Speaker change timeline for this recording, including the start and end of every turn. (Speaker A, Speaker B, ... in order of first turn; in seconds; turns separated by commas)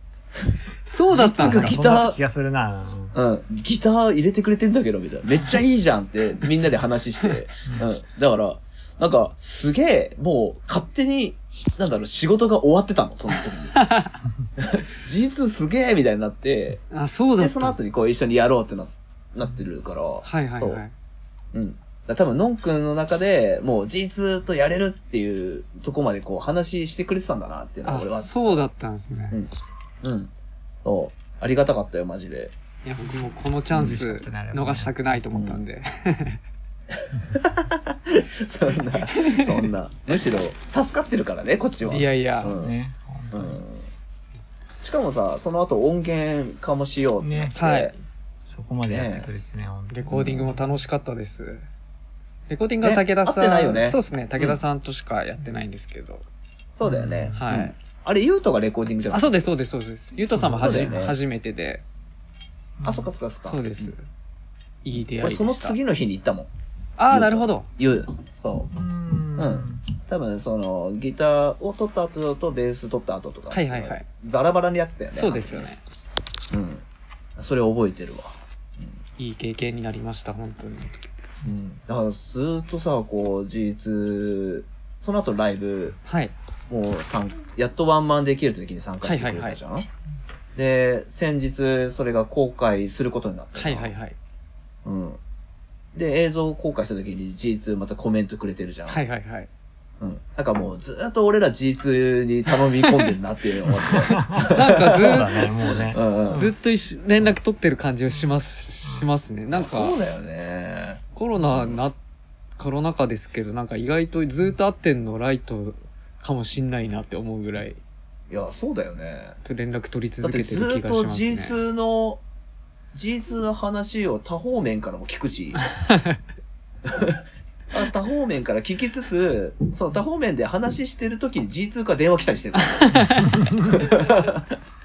Speaker A: 0.8-1.8, Speaker B: 1.1-2.2, Speaker C: 1.1-3.2, Speaker B: 3.1-13.9, Speaker A: 13.7-14.1, Speaker B: 14.6-16.8, Speaker A: 16.9-17.8, Speaker B: 17.4-20.8, Speaker A: 20.2-20.9, Speaker B: 21.5-28.7, Speaker A: 27.9-29.4, Speaker B: 29.3-30.3, Speaker B: 30.9-32.5, Speaker A: 32.8-36.4, Speaker C: 33.7-35.0, Speaker B: 33.7-34.0, Speaker B: 35.3-35.6, Speaker B: 36.9-42.8, Speaker A: 39.0-39.7, Speaker A: 41.9-42.5, Speaker C: 42.4-43.6, Speaker B: 43.3-43.9, Speaker B: 44.8-48.0, Speaker C: 47.2-47.6, Speaker A: 47.5-47.9, Speaker C: 48.5-50.6, Speaker B: 48.9-49.3, Speaker A: 49.9-51.6, Speaker B: 50.1-50.5, Speaker A: 52.5-56.2, Speaker B: 52.8-54.6, Speaker B: 56.8-59.5, Speaker C: 56.8-57.5, Speaker A: 57.4-57.7, Speaker A: 59.1-61.8, Speaker C: 60.3-61.1, Speaker B: 60.6-61.1, Speaker C: 62.8-63.1, Speaker B: 62.8-63.9, Speaker A: 63.5-64.0, Speaker A: 64.8-65.8, Speaker B: 65.2-66.5, Speaker A: 67.0-67.7, Speaker B: 67.1-68.7, Speaker C: 68.7-69.8, Speaker B: 69.4-75.7, Speaker A: 73.5-74.1, Speaker A: 75.2-75.8, Speaker B: 76.5-76.8, Speaker B: 77.4-79.0, Speaker A: 79.2-80.9, Speaker B: 81.4-86.0, Speaker A: 86.0-86.3, Speaker B: 86.7-89.9, Speaker A: 89.0-89.6, Speaker B: 90.6-93.9, Speaker A: 93.6-94.2, Speaker B: 94.8-95.2, Speaker B: 95.9-99.0, Speaker A: 98.9-99.5, Speaker B: 100.0-105.3, Speaker A: 102.8-103.1, Speaker C: 103.7-106.5, Speaker A: 104.5-110.0, Speaker B: 105.9-106.5, Speaker B: 109.5-111.8, Speaker A: 111.2-112.0, Speaker A: 112.6-117.8, Speaker B: 118.3-119.4, Speaker A: 119.4-121.5, Speaker B: 120.2-122.2, Speaker B: 122.9-125.6, Speaker A: 125.8-126.2, Speaker B: 126.8-132.8, Speaker A: 132.6-133.4, Speaker C: 132.9-133.8, Speaker B: 133.6-134.6